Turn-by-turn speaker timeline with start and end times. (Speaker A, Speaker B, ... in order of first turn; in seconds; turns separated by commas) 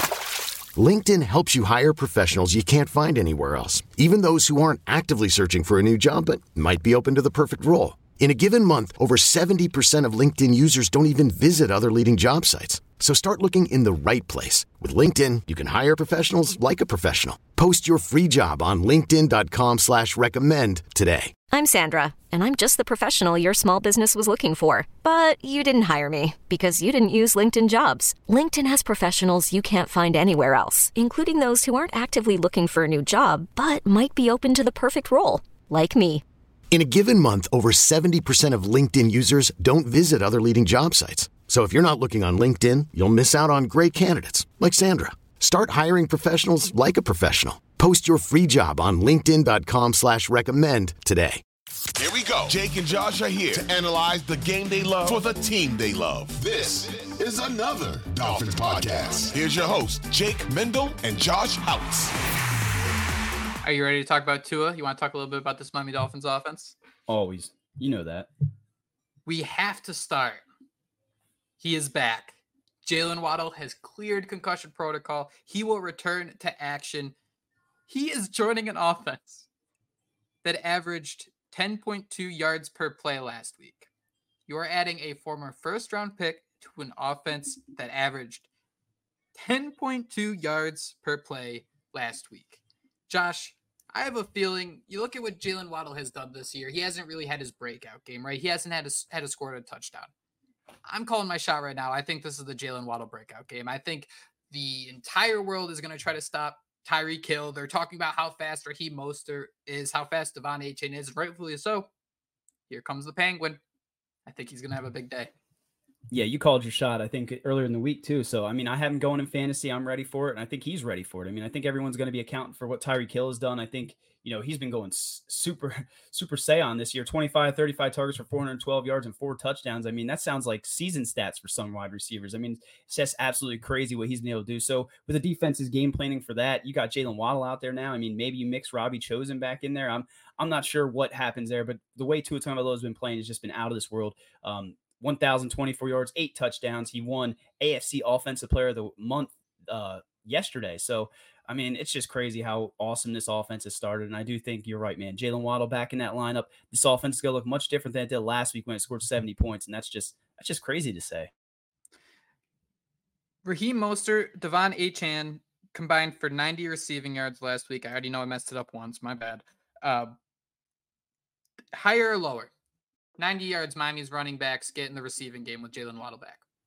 Speaker A: 0.8-21.3, Speaker B: 21.5-36.2, Speaker A: 36.7-51.4, Speaker C: 52.0-62.1, Speaker D: 63.6-66.8, Speaker E: 67.1-68.3, Speaker D: 69.2-70.4, Speaker D: 71.6-77.1, Speaker D: 77.9-79.5, Speaker D: 80.4-83.9, Speaker D: 84.5-88.5, Speaker D: 89.3-100.1, Speaker D: 100.8-111.9, Speaker D: 112.7-113.6, Speaker D: 114.2-115.3, Speaker E: 116.1-161.3, Speaker D: 163.4-170.1, Speaker D: 171.7-172.5, Speaker D: 173.2-176.4